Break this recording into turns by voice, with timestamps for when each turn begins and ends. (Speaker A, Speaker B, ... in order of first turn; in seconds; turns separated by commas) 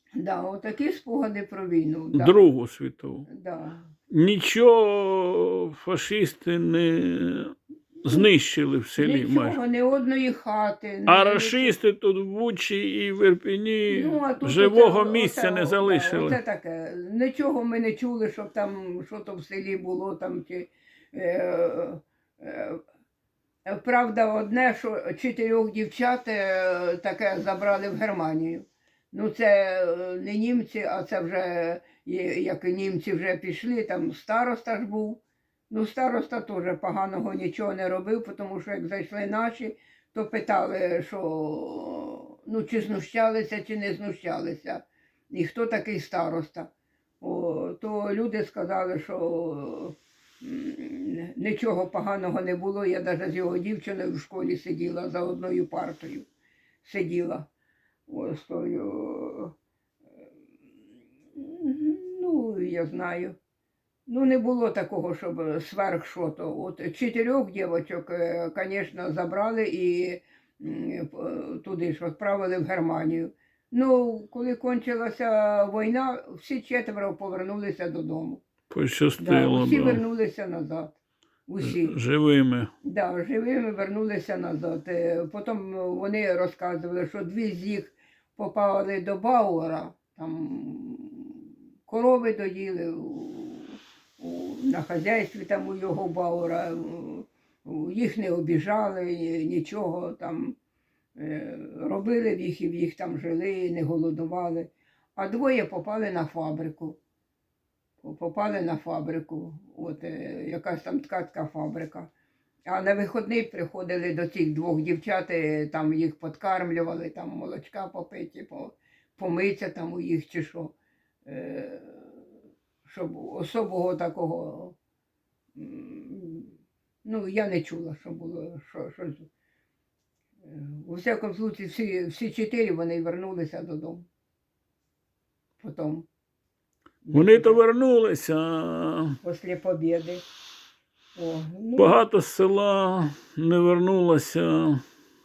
Speaker A: 0.1-2.4, Speaker B: 2.1-3.2, Speaker A: 3.3-3.9, Speaker B: 4.1-9.6, Speaker A: 9.0-11.8, Speaker B: 11.1-16.4, Speaker A: 13.9-22.8, Speaker A: 23.7-56.3, Speaker A: 56.8-57.5, Speaker A: 58.1-59.5, Speaker A: 61.3-63.4, Speaker A: 64.1-78.4, Speaker B: 78.7-80.0, Speaker A: 79.2-81.0, Speaker A: 81.5-82.0, Speaker B: 81.6-82.7, Speaker A: 82.8-100.6, Speaker A: 101.2-107.0, Speaker A: 108.0-112.1, Speaker A: 112.7-122.3, Speaker A: 122.8-124.8, Speaker A: 125.5-129.3, Speaker A: 130.4-134.1, Speaker A: 135.6-136.1, Speaker A: 137.0-137.6, Speaker B: 137.1-139.2, Speaker A: 139.2-140.2, Speaker A: 141.1-141.9, Speaker B: 141.8-144.8